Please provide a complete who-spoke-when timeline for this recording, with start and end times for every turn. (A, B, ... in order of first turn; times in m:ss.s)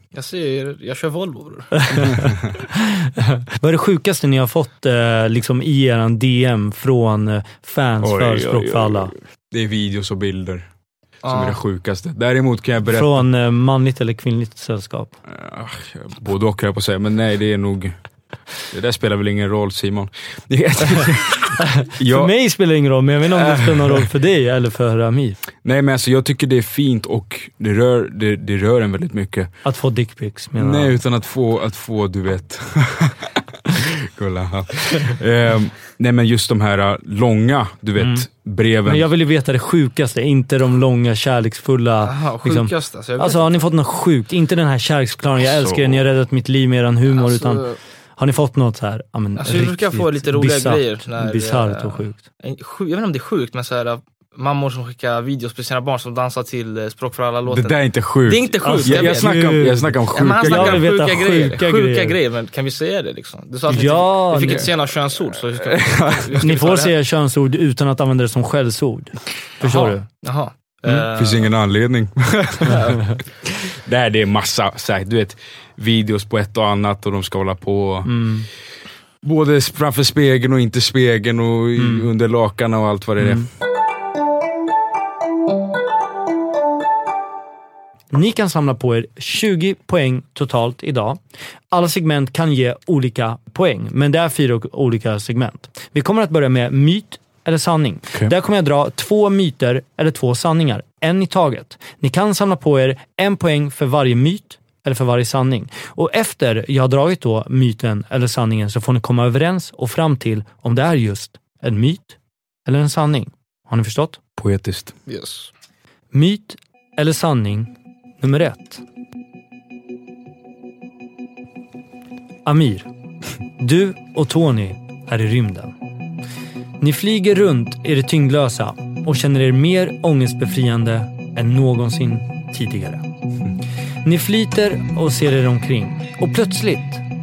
0:00.1-0:01.8 A
0:01.8-0:09.1 B
0:02.1-0:02.5 C
0:08.0-0:10.7 C
0:11.2-0:11.6 A
0:11.2-0:13.2 C
0:12.8-0:15.2 B
0:15.3-0:18.0 C
0:18.7-0:22.3 C
0:21.6-0:25.4 B
0:23.3-0:24.1 C
0:25.6-0:29.5 C
0:29.6-0:31.0 B
0:30.6-0:39.1 C
0:38.0-0:38.3 B
0:38.8-0:52.2 B
0:42.0-0:43.4 A
0:45.4-0:46.0 C
0:47.1-0:47.8 A
0:49.4-0:59.3 A
0:57.5-1:00.9 C
0:58.6-1:02.2 B
1:00.1-1:06.9 A
1:03.7-1:04.7 B
1:05.5-1:06.4 C
1:06.4-1:10.1 B
1:09.6-1:11.5 A
1:11.1-1:13.0 C
1:12.7-1:13.0 A
1:13.6-1:18.1 C
1:18.0-1:18.5 B
1:19.2-1:23.5 C
1:21.8-1:22.1 B
1:23.2-1:23.5 B
1:28.1-1:31.2 B
1:31.7-1:54.2 B
1:54.4-1:54.9 C
1:55.1-1:55.5 A
1:56.1-1:58.8 B
2:02.4-2:02.9 B
2:03.6-2:05.7 B
2:06.8-2:13.0 B
2:14.0-2:17.0 B